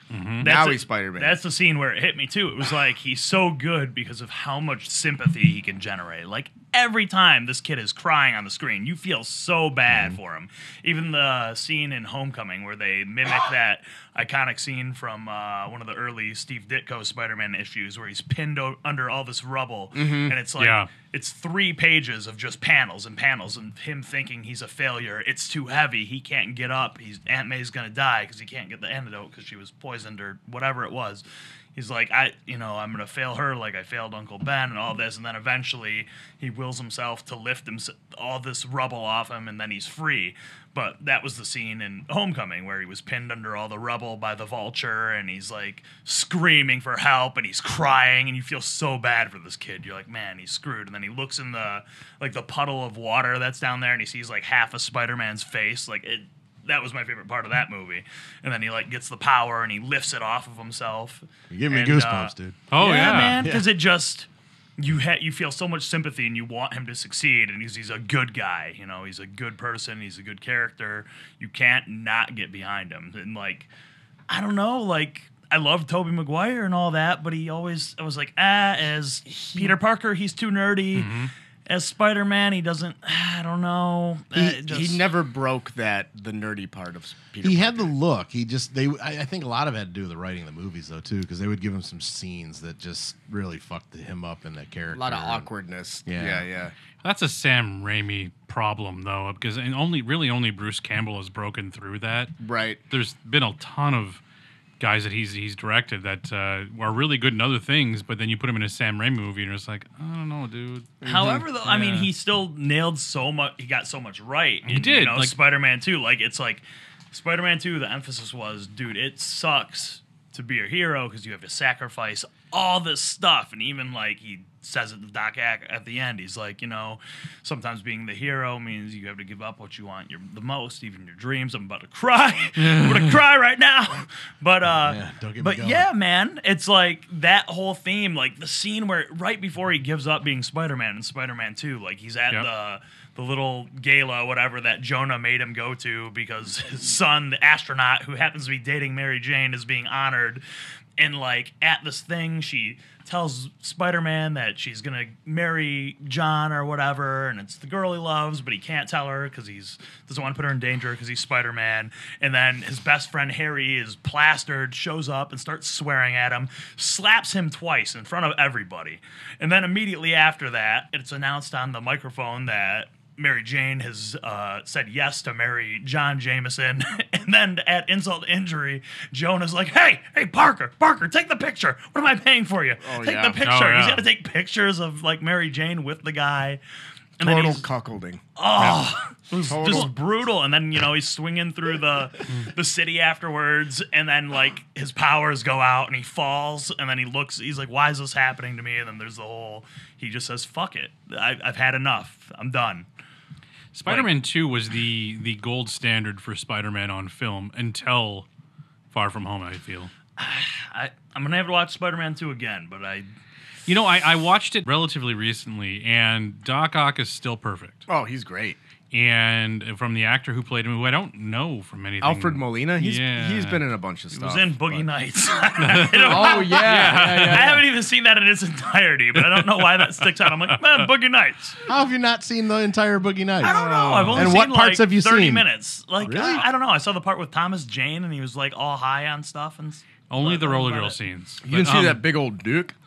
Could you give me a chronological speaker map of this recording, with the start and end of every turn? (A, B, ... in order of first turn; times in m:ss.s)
0:00.1-0:00.5 A
0:00.4-0:01.4 B
0:00.4-0:31.2 C
0:19.9-0:20.4 B
0:20.6-0:20.9 A
0:31.8-1:04.3 C
1:01.5-1:02.6 D
1:02.7-1:03.4 A
1:03.4-1:03.7 D
1:04.8-1:13.7 C
1:14.3-1:21.1 C
1:20.9-1:21.3 A
1:21.7-1:25.0 C
1:24.3-1:27.9 B
1:27.4-1:35.5 D
1:34.9-1:36.7 B
1:36.1-1:36.4 D
1:37.0-1:42.4 A
1:42.4-1:42.8 B
1:42.9-1:44.2 A
1:44.8-1:52.1 A
1:51.0-1:51.4 B
1:51.0-2:30.4 C
1:54.6-1:55.3 A
2:12.7-2:13.1 A
2:14.7-2:15.9 D
2:31.0-3:06.6 C
3:02.8-3:03.4 B
3:03.4-3:04.0 A
3:07.2-3:07.6 C
3:07.2-3:08.2 B
3:08.4-3:22.9 C
3:08.6-3:08.9 A
3:09.4-3:09.9 B
3:23.7-3:28.2 A
3:23.8-3:24.1 C
3:28.9-3:29.9 A
3:30.2-3:33.1 C
3:33.7-3:37.8 A
3:37.9-3:38.6 B
3:38.9-3:43.6 A
3:42.0-3:44.8 B
3:44.1-3:51.6 C
3:45.6-3:47.6 A
3:46.0-3:47.6 B
3:49.1-3:50.6 A
3:51.7-3:55.4 D
3:53.4-4:01.0 C
3:53.5-3:54.3 A
3:56.0-3:56.5 D
4:00.1-4:02.0 A
4:01.4-4:02.7 B